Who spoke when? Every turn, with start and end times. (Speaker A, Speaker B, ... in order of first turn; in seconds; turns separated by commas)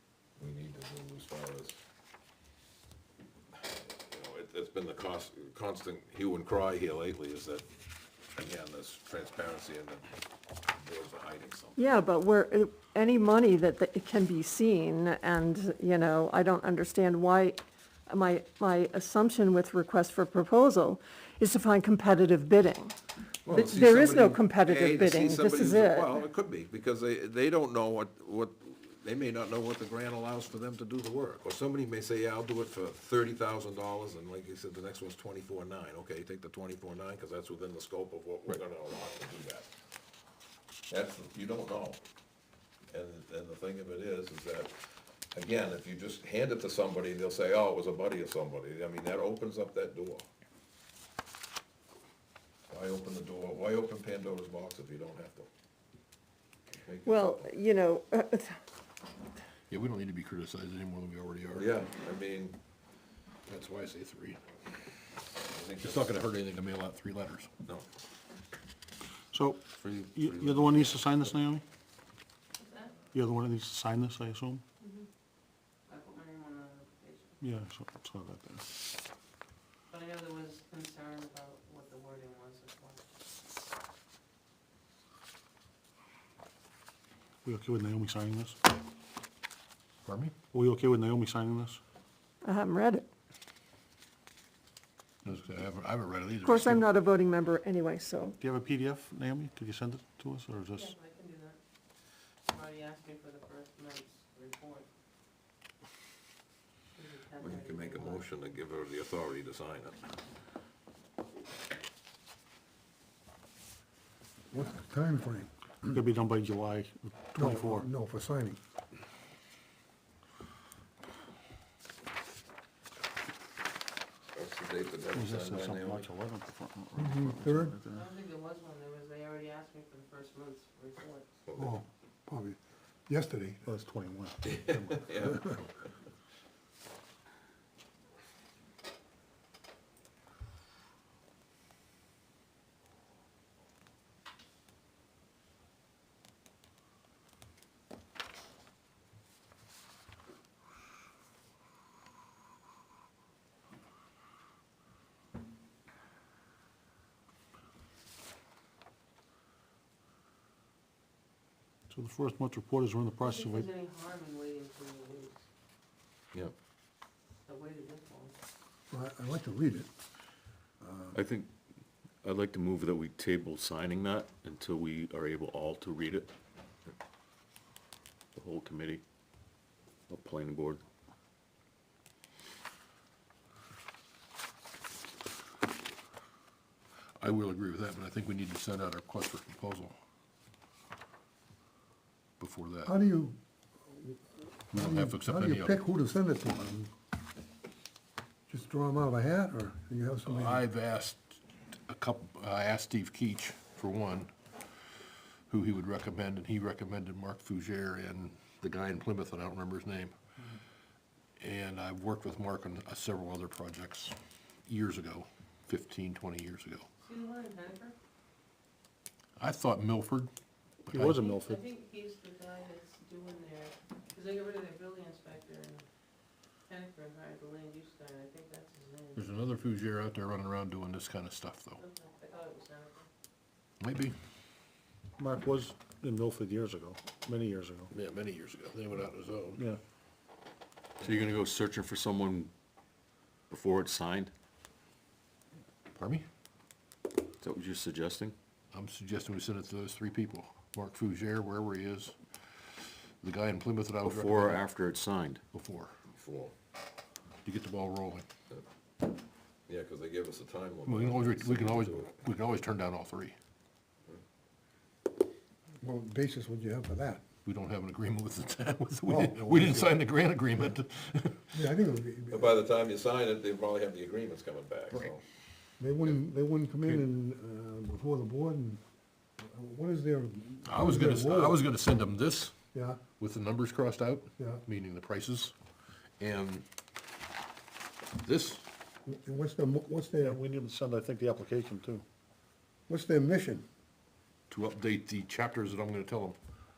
Speaker A: 0.4-1.8, Speaker A: 3.6-7.7, Speaker A: 8.3-10.1, Speaker A: 10.8-11.8, Speaker B: 11.8-22.9, Speaker A: 23.4-39.7, Speaker B: 23.5-26.2, Speaker A: 40.9-42.0, Speaker A: 42.9-50.2, Speaker A: 52.7-55.5, Speaker A: 56.8-57.5, Speaker B: 57.0-58.6, Speaker C: 59.7-61.8, Speaker A: 61.5-62.6, Speaker C: 63.5-64.4, Speaker A: 65.5-66.2, Speaker C: 65.8-67.5, Speaker D: 69.3-71.6, Speaker E: 72.6-73.0, Speaker D: 73.1-74.6, Speaker E: 75.9-77.4, Speaker D: 77.4-78.7, Speaker E: 79.9-83.0, Speaker D: 87.4-88.6, Speaker C: 90.0-90.3, Speaker D: 90.5-91.8, Speaker B: 92.4-93.1, Speaker C: 95.2-96.9, Speaker B: 96.4-98.3, Speaker D: 98.4-100.9, Speaker E: 100.8-101.6, Speaker E: 102.5-104.9, Speaker E: 106.9-108.3, Speaker A: 107.4-110.0, Speaker F: 114.5-116.0, Speaker D: 115.9-117.9, Speaker F: 117.3-118.6, Speaker A: 124.3-126.1, Speaker D: 125.1-128.1, Speaker F: 127.0-127.8, Speaker E: 127.9-131.3, Speaker A: 131.4-131.8, Speaker F: 131.6-133.7, Speaker D: 133.6-135.1, Speaker A: 134.5-135.7, Speaker F: 135.2-135.6, Speaker D: 161.9-163.7, Speaker E: 163.2-165.4, Speaker E: 167.4-168.3, Speaker F: 168.9-169.9, Speaker F: 170.8-171.2, Speaker G: 171.1-171.5, Speaker G: 172.2-176.3, Speaker G: 178.3-179.0, Speaker G: 180.1-180.8, Speaker C: 187.2-189.9, Speaker C: 192.4-192.9, Speaker F: 192.8-193.4, Speaker F: 193.9-196.9, Speaker C: 194.7-195.8, Speaker F: 198.5-200.6, Speaker C: 200.2-204.3, Speaker C: 205.5-210.1, Speaker C: 211.4-214.2, Speaker C: 214.7-216.9, Speaker E: 217.0-217.9, Speaker C: 219.4-220.3, Speaker C: 220.9-221.2, Speaker D: 220.9-221.6, Speaker E: 221.0-225.9, Speaker E: 226.7-229.2, Speaker C: 229.2-231.8, Speaker E: 231.8-233.1, Speaker C: 233.8-234.1, Speaker D: 235.2-237.9, Speaker C: 237.9-239.6, Speaker G: 241.0-242.5, Speaker G: 243.5-244.3, Speaker C: 245.9-246.2, Speaker G: 247.4-248.3, Speaker C: 248.7-254.7, Speaker G: 254.0-255.4, Speaker C: 255.5-255.9, Speaker A: 256.1-256.5, Speaker C: 257.4-258.2, Speaker A: 259.7-262.1, Speaker C: 260.9-263.3, Speaker F: 265.8-267.2, Speaker C: 267.4-271.6, Speaker F: 269.1-270.0, Speaker F: 271.5-272.6, Speaker A: 272.3-275.2, Speaker F: 275.8-278.8, Speaker F: 279.4-281.6, Speaker C: 280.6-282.5, Speaker F: 282.7-283.0, Speaker C: 283.2-285.5, Speaker F: 284.4-284.6, Speaker C: 286.2-286.6, Speaker C: 288.1-288.6, Speaker F: 289.1-290.4, Speaker D: 290.2-292.0, Speaker F: 292.9-293.6, Speaker C: 294.5-296.4